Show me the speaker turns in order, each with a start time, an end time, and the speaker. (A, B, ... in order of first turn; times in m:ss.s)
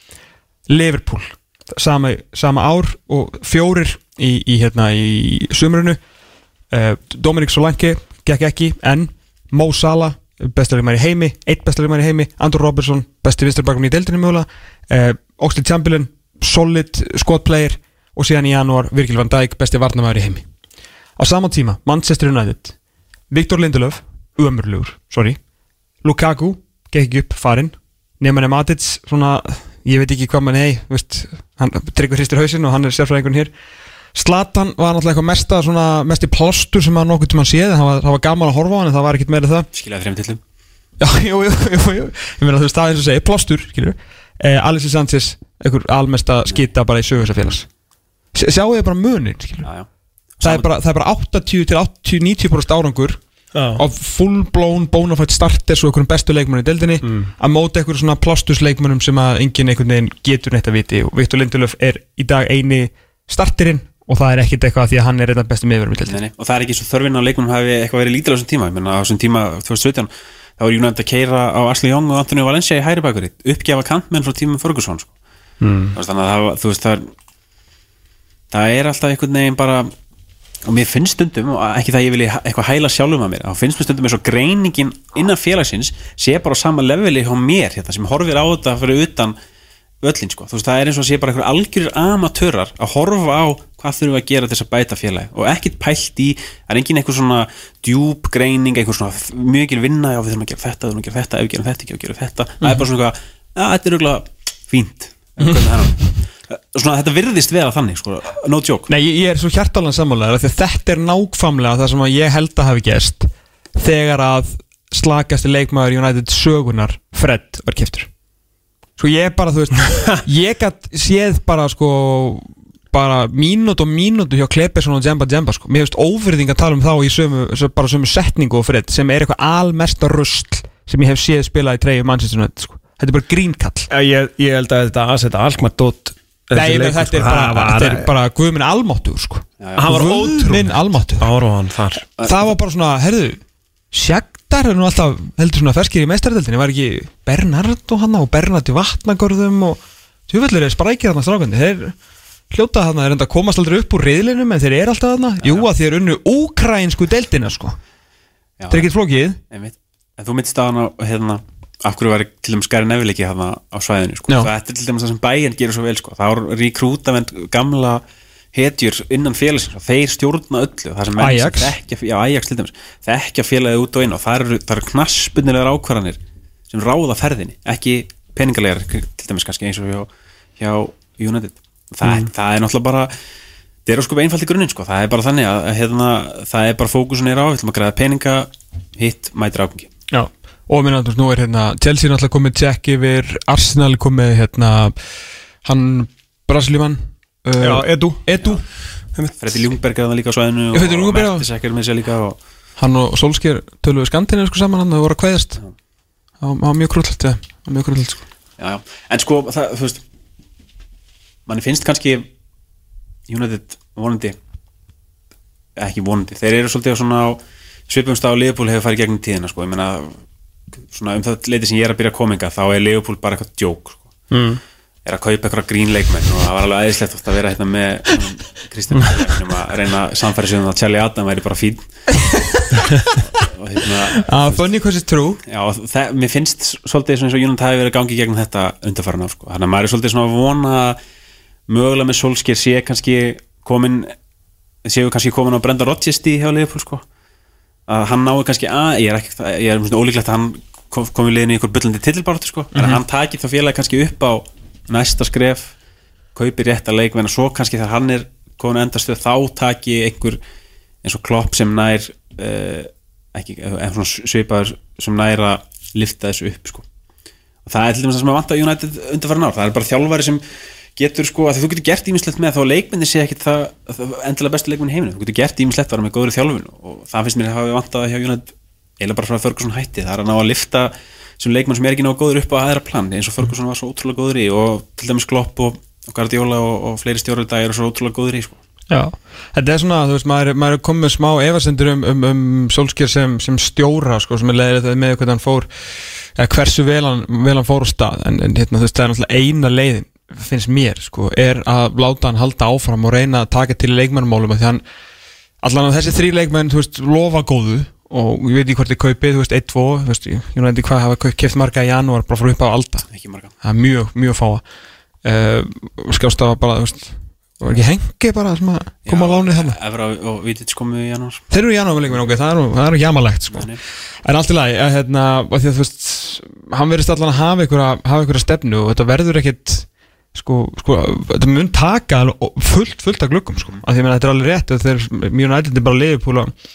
0:00.7-0:06.0 A
0:06.7-0:20.4 A
0:21.2-0:22.8 A
0:23.3-0:25.4 A
0:26.0-0:33.5 A
0:34.1-0:39.7 A
0:39.7-0:40.4 B
0:41.0-0:47.6 A
0:48.3-0:49.7 A
0:49.6-0:49.9 B
0:50.4-0:50.7 B
0:50.4-0:53.2 A
0:53.5-0:53.8 C
0:53.8-1:06.2 A
1:06.1-1:15.1 B
1:15.6-1:15.9 C
1:15.9-1:17.1 B
1:18.5-1:19.9 B
1:20.6-1:29.4 B
1:30.0-1:48.9 B
1:48.9-1:58.1 A
1:59.0-2:13.9 A
2:13.9-2:18.1 C
2:16.5-2:21.3 A
2:19.6-2:20.0 B
2:19.8-2:22.0 C
2:22.2-2:22.4 B
2:22.2-2:23.4 A
2:23.9-2:31.9 A
2:32.5-2:37.8 A
2:38.6-2:38.9 B
2:38.7-2:39.4 A
2:39.5-2:48.0 B
2:48.5-2:56.2 B
2:51.2-2:51.7 A
2:56.7-3:03.1 B
3:03.8-3:09.9 B
3:10.1-3:14.9 A
3:15.6-3:18.6 A
3:17.6-3:18.2 C
3:19.4-3:22.4 B
3:20.7-3:21.4 A
3:22.8-3:25.6 A
3:26.4-3:28.2 A
3:28.6-3:30.0 B
3:31.4-3:32.3 B
3:33.3-3:34.4 B
3:35.8-3:40.2 B
3:40.9-3:44.1 B
3:44.3-3:44.6 C
3:45.0-3:51.8 B
3:52.3-3:52.6 A
3:53.2-3:54.6 B
3:54.2-3:55.4 A
3:55.4-4:01.0 B
4:01.7-4:04.1 B
4:04.8-4:07.0 B
4:07.9-4:15.7 B
4:12.7-4:13.0 A
4:16.3-4:20.4 B
4:21.0-4:26.8 B
4:27.6-4:30.4 B
4:31.0-4:48.6 B
4:48.9-4:55.7 A
4:56.4-5:04.8 A
5:05.6-5:13.1 A
5:13.1-5:13.5 B
5:13.6-5:14.6 A
5:15.2-5:19.8 A
5:19.0-5:21.4 B
5:21.5-5:23.7 A
5:23.5-5:23.8 B
5:24.2-5:36.5 A